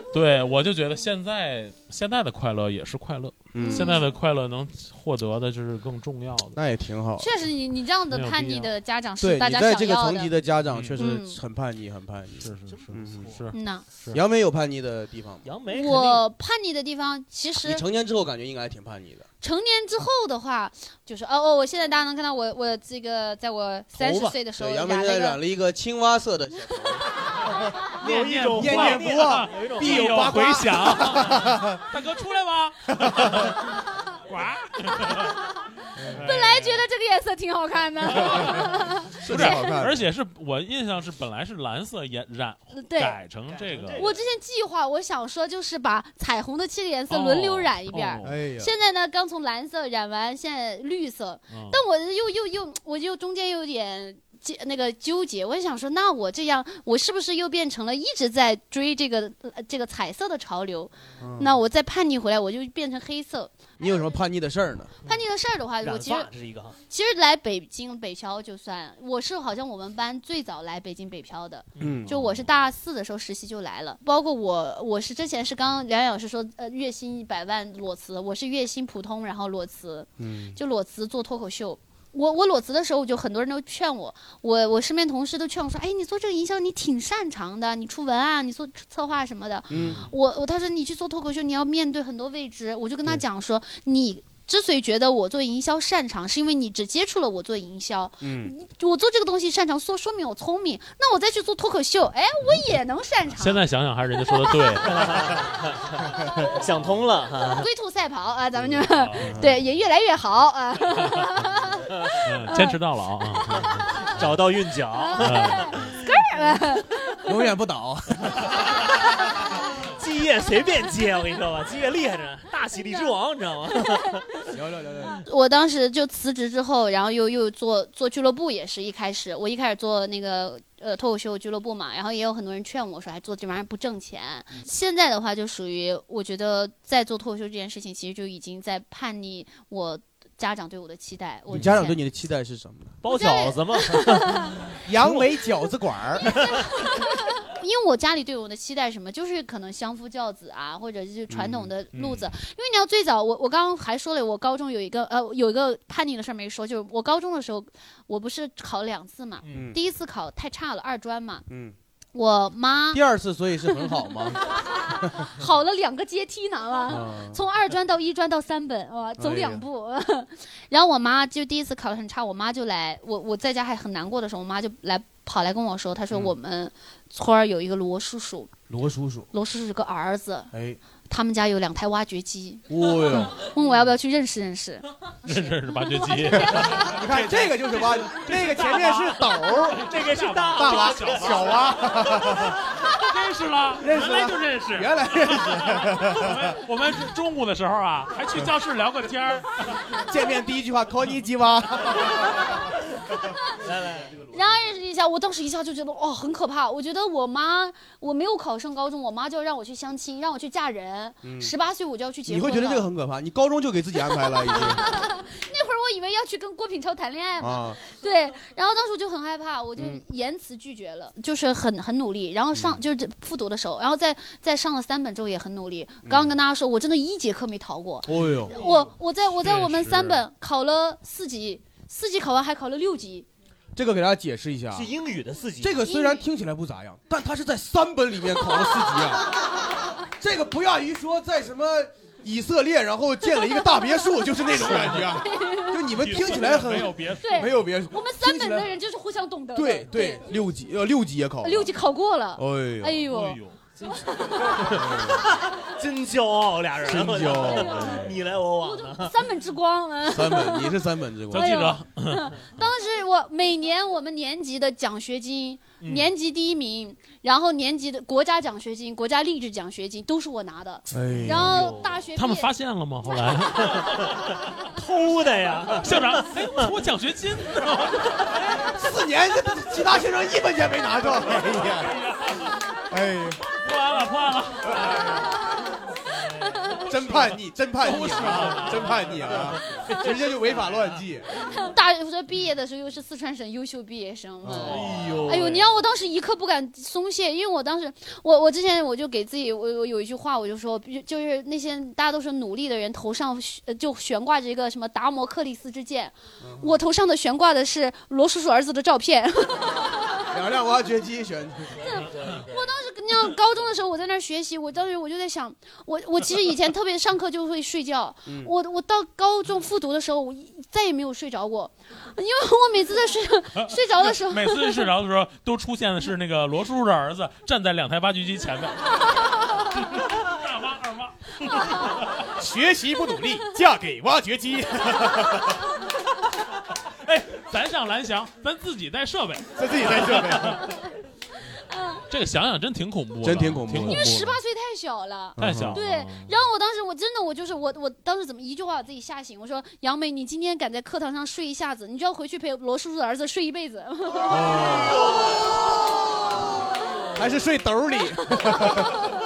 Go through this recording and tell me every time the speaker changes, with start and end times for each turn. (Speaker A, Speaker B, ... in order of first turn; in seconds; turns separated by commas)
Speaker A: 0.1-6.6, Speaker B: 3.5-4.0, Speaker C: 3.6-4.1, Speaker B: 6.5-7.3, Speaker C: 7.2-10.3, Speaker A: 8.1-8.7, Speaker B: 9.2-13.3, Speaker A: 10.7-11.0, Speaker C: 11.0-11.4, Speaker A: 12.4-14.2, Speaker D: 12.7-13.4, Speaker C: 13.5-13.8, Speaker B: 14.1-15.5, Speaker D: 15.4-16.2, Speaker C: 15.7-17.8, Speaker B: 17.6-19.3, Speaker C: 19.4-25.4, Speaker D: 23.9-24.4, Speaker B: 24.6-27.1, Speaker A: 28.0-33.6, Speaker D: 28.0-30.6, Speaker B: 28.6-31.8, Speaker B: 32.9-33.5, Speaker A: 34.3-35.3, Speaker C: 35.0-35.3, Speaker B: 36.0-36.2, Speaker C: 36.2-39.6, Speaker A: 38.1-38.7, Speaker B: 39.2-40.1, Speaker A: 39.2-44.0, Speaker C: 42.7-43.2, Speaker D: 43.5-44.1, Speaker C: 44.0-64.0, Speaker A: 47.1-48.4, Speaker B: 48.2-48.7, Speaker A: 51.5-51.8, Speaker B: 61.2-61.6, Speaker B: 63.8-64.9, Speaker C: 65.0-66.3, Speaker D: 65.8-66.8, Speaker C: 66.9-103.6, Speaker B: 71.8-72.1, Speaker A: 72.1-72.4, Speaker B: 80.2-80.6, Speaker B: 89.7-90.1, Speaker B: 98.2-98.5, Speaker A: 103.4-105.4, Speaker C: 104.3-104.7, Speaker D: 104.9-105.8, Speaker D: 106.6-107.7, Speaker C: 107.6-112.8, Speaker A: 109.0-109.3, Speaker B: 109.2-109.6, Speaker A: 112.2-114.2, Speaker D: 114.0-116.2, Speaker A: 115.2-115.9, Speaker C: 116.0-117.2, Speaker B: 117.3-118.6, Speaker D: 119.9-124.4, Speaker B: 124.5-125.2, Speaker C: 125.2-142.0, Speaker B: 141.5-143.0, Speaker D: 143.0-145.2, Speaker C: 143.1-144.4, Speaker B: 144.8-146.3, Speaker C: 146.8-161.4, Speaker B: 151.3-151.7, Speaker A: 151.9-152.3, Speaker B: 159.5-159.8, Speaker B: 161.5-161.8, Speaker C: 162.1-163.0, Speaker B: 162.9-164.4, Speaker C: 164.5-178.5, Speaker B: 165.0-165.3, Speaker B: 166.9-167.4, Speaker B: 169.2-169.6, Speaker B: 178.7-179.3, Speaker C: 179.3-180.5, Speaker B: 180.5-180.8, Speaker C: 181.1-184.8, Speaker B: 182.7-183.4, Speaker A: 185.2-199.9, Speaker C: 186.0-186.7, Speaker B: 186.4-189.9, Speaker D: 189.9-191.6, Speaker B: 190.6-192.6, Speaker B: 193.8-196.6, Speaker B: 200.1-202.5, Speaker D: 203.6-204.2, Speaker C: 204.3-212.9, Speaker B: 211.2-211.5, Speaker B: 212.3-214.8, Speaker C: 214.3-233.3, Speaker B: 217.4-217.8, Speaker B: 219.8-220.0, Speaker B: 226.1-226.3, Speaker B: 228.1-228.6, Speaker A: 229.4-230.2, Speaker B: 233.8-234.9, Speaker D: 234.7-235.8, Speaker B: 235.6-239.3, Speaker C: 235.9-236.2, Speaker B: 240.2-248.7, Speaker A: 244.6-245.2, Speaker C: 245.1-245.9, Speaker A: 245.9-247.7, Speaker C: 247.2-250.5, Speaker B: 249.6-251.7, Speaker C: 251.4-253.4, Speaker B: 252.4-253.1, Speaker A: 253.1-253.7, Speaker B: 254.7-255.2, Speaker D: 255.2-259.2, Speaker B: 256.8-257.9, Speaker C: 257.4-258.1, Speaker A: 257.8-258.1, Speaker C: 258.6-272.5, Speaker B: 260.1-261.7, Speaker A: 261.3-262.7, Speaker D: 265.8-266.1, Speaker B: 270.9-271.5, Speaker D: 271.3-271.9, Speaker A: 272.1-274.1, Speaker D: 273.7-274.2, Speaker D: 274.7-276.7, Speaker A: 275.8-278.6, Speaker B: 278.7-282.0, Speaker A: 281.6-282.5, Speaker B: 282.9-283.4, Speaker A: 283.6-285.3, Speaker B: 284.7-285.0, Speaker C: 286.5-286.8, Speaker B: 286.9-291.2, Speaker A: 286.9-289.5, Speaker C: 291.4-310.2, Speaker B: 294.4-295.5, Speaker D: 294.6-295.2, Speaker A: 294.6-295.7, Speaker B: 306.4-306.7, Speaker B: 310.3-311.8, Speaker C: 311.8-324.9, Speaker B: 318.3-318.5, Speaker A: 323.6-332.2, Speaker B: 332.4-335.6, Speaker A: 337.1-340.7, Speaker B: 339.6-340.7, Speaker C: 341.7-342.0, Speaker A: 342.1-344.3, Speaker B: 343.2-344.4, Speaker C: 343.8-355.0, Speaker B: 345.4-345.8, Speaker A: 345.4-346.3, Speaker B: 354.3-355.2, Speaker B: 357.1-359.0, Speaker C: 358.4-359.0